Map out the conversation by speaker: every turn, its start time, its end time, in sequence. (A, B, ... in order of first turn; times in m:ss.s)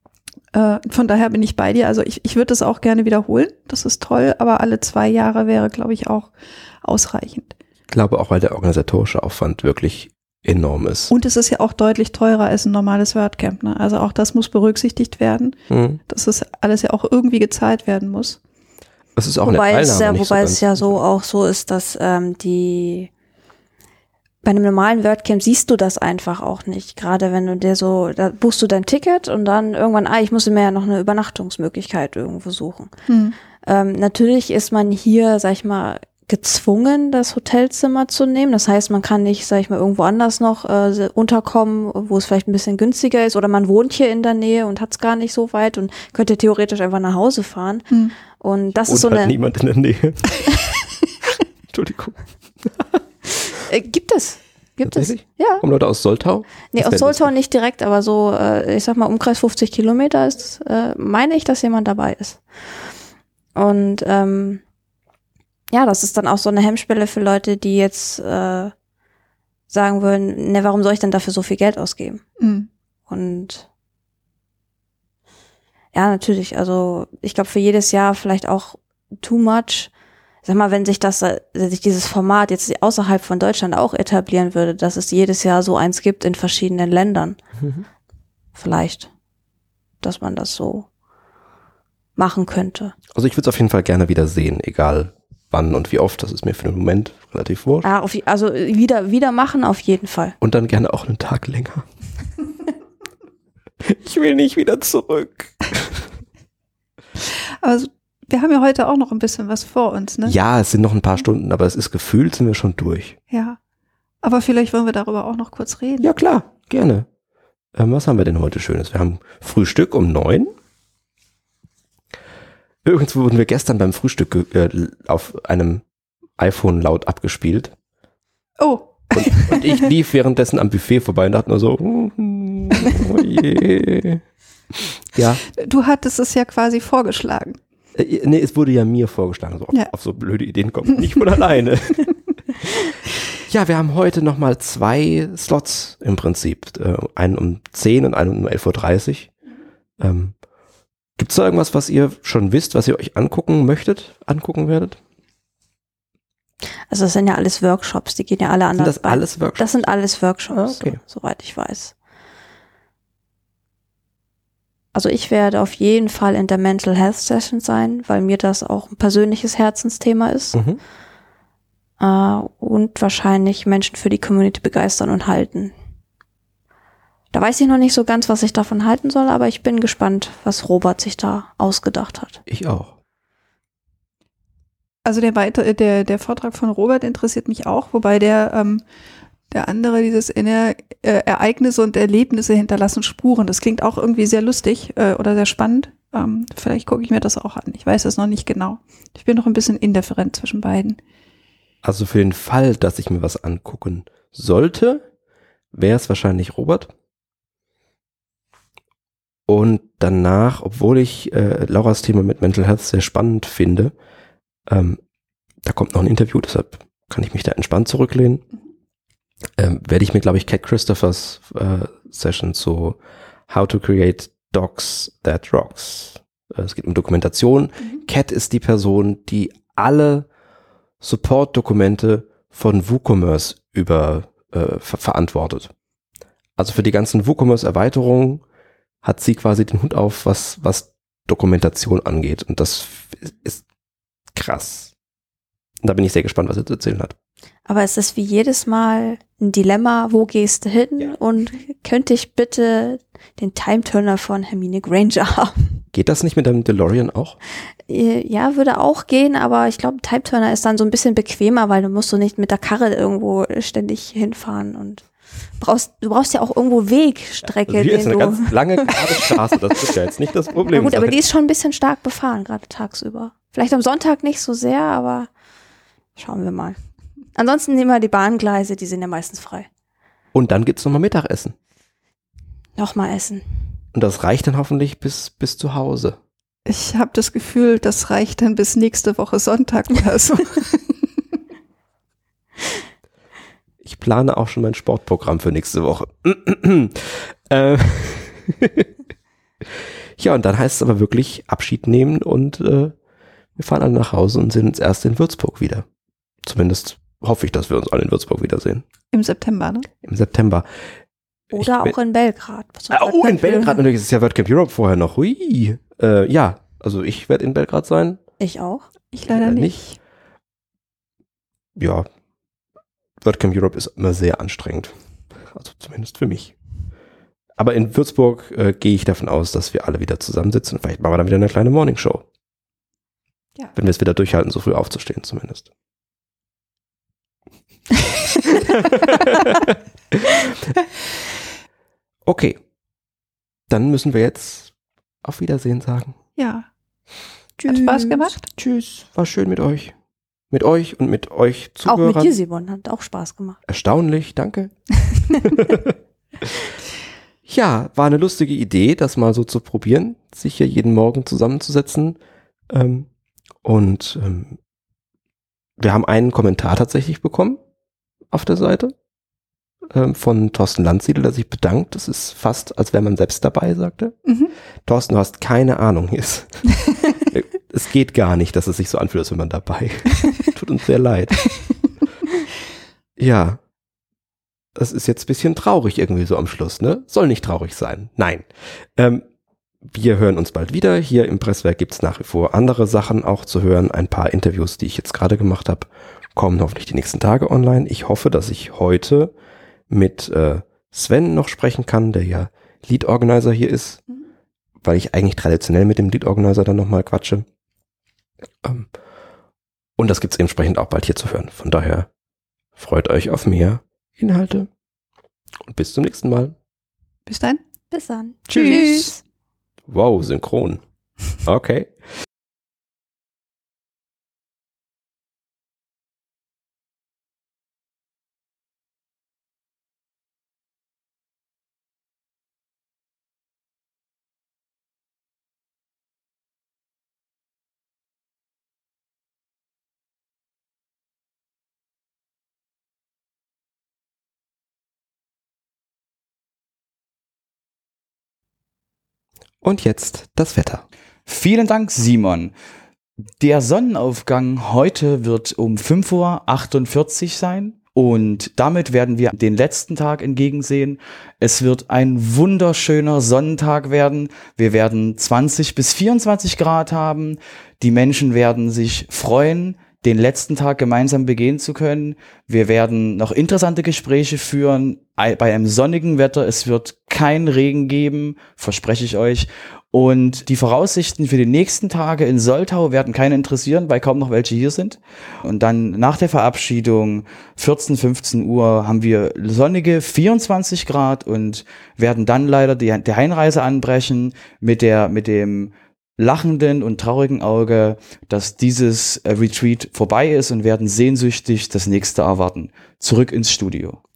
0:00.5-0:07.5 A
0:07.9-0:11.1 B
0:11.1-0:18.4 A
0:15.7-0:16.0 B
0:19.2-0:21.0 B
0:19.4-0:23.1 C
0:24.4-0:32.9 C
0:33.1-0:33.4 A
0:33.6-0:49.3 C
0:48.9-0:50.3 B
0:51.7-0:53.0 B
0:53.5-0:55.6 C
0:54.8-0:57.3 B
0:56.7-1:02.4 C
1:03.5-1:04.6 C
1:05.7-1:08.7 C
1:09.7-1:12.2 C
1:12.4-1:12.7 A
1:13.1-1:13.6 C
1:15.9-1:19.9 C
1:20.4-1:27.4 C
1:27.6-1:27.8 B
1:28.6-1:29.1 C
1:30.0-1:30.8 C
1:32.2-1:32.9 C
1:33.1-1:37.9 B
1:37.8-1:40.4 C
1:40.4-1:41.8 B
1:43.8-1:46.0 B
1:47.3-1:50.4 A
1:50.2-1:53.2 B
1:53.3-1:53.6 A
1:54.2-1:56.1 A
1:56.0-1:57.1 B
1:57.7-2:00.5 B
2:02.8-2:05.8 B
2:06.4-2:07.7 B
2:08.6-2:09.6 A
2:09.1-2:14.2 B
2:14.8-2:15.4 B
2:15.5-2:17.6 A
2:17.9-2:22.7 B
2:23.4-2:29.3 B
2:30.0-2:30.3 B
2:31.2-2:35.0 B
2:36.9-2:41.9 C
2:38.8-2:39.8 B
2:40.5-2:41.0 B
2:44.9-2:50.6 C
2:50.5-2:50.8 B
2:52.0-2:55.7 C
2:57.3-3:02.4 C
3:02.5-3:02.9 B
3:05.0-3:08.8 A
3:09.5-3:21.0 A
3:21.8-3:25.0 B
3:25.7-3:26.9 B
3:29.5-3:33.9 B
3:34.7-3:35.0 B
3:35.6-3:38.4 B
3:39.6-3:43.0 B
3:43.5-3:50.3 B
3:51.0-3:55.7 B
3:56.6-3:58.4 B
3:59.0-4:03.6 B
4:04.3-4:04.9 B
4:05.8-4:07.1 B
4:07.7-4:15.8 C
4:15.9-4:17.4 B
4:17.9-4:25.0 C
4:25.6-4:29.3 C
4:27.7-4:31.1 B
4:30.6-4:35.3 C
4:36.2-4:36.8 C
4:37.3-4:39.7 C
4:40.3-4:41.5 B
4:42.8-4:43.4 C
4:43.9-4:46.2 B
4:46.6-4:51.1 A
4:53.8-4:58.9 B
5:00.2-5:02.9 B
5:03.6-5:05.8 B
5:06.4-5:08.8 B
5:09.1-5:09.8 A
5:10.0-5:10.7 B
5:11.5-5:11.9 B
5:11.5-5:13.8 C
5:12.9-5:18.2 B
5:18.4-5:18.9 C
5:19.1-5:20.0 A
5:19.3-5:19.8 B
5:21.8-5:22.1 B
5:23.2-5:24.9 B
5:25.5-5:26.5 B
5:27.6-5:32.2 B
5:33.7-5:35.7 B
5:38.7-5:40.4 B
5:42.2-5:42.6 B
5:43.7-5:44.7 B
5:45.2-5:46.2 B
5:46.4-5:46.7 A
5:47.6-5:48.4 C
5:47.7-5:48.4 A
5:48.5-5:49.9 B
5:50.5-5:52.3 B
5:51.8-5:53.6 C
5:53.7-5:54.7 B
5:55.3-5:55.9 B
5:57.5-6:02.2 B
6:02.7-6:03.1 B
6:03.6-6:04.6 B
6:05.8-6:07.6 B
6:08.3-6:08.9 B
6:09.9-6:14.1 B
6:14.2-6:14.5 A
6:14.8-6:21.4 B
6:23.2-6:23.6 B
6:24.8-6:29.2 B
6:29.9-6:39.3 B
6:39.9-6:44.0 B
6:44.8-6:47.4 B
6:48.6-6:48.9 B
6:50.0-6:52.1 B
6:52.8-6:54.7 B
6:55.7-6:56.5 B
6:57.3-6:57.6 A
6:57.9-6:59.2 C
6:58.5-6:58.8 B
6:58.5-6:59.1 A
6:59.9-7:00.8 B
7:01.4-7:01.9 B
7:29.6-7:30.8 B
7:31.3-7:32.5 D
7:33.4-8:24.0 D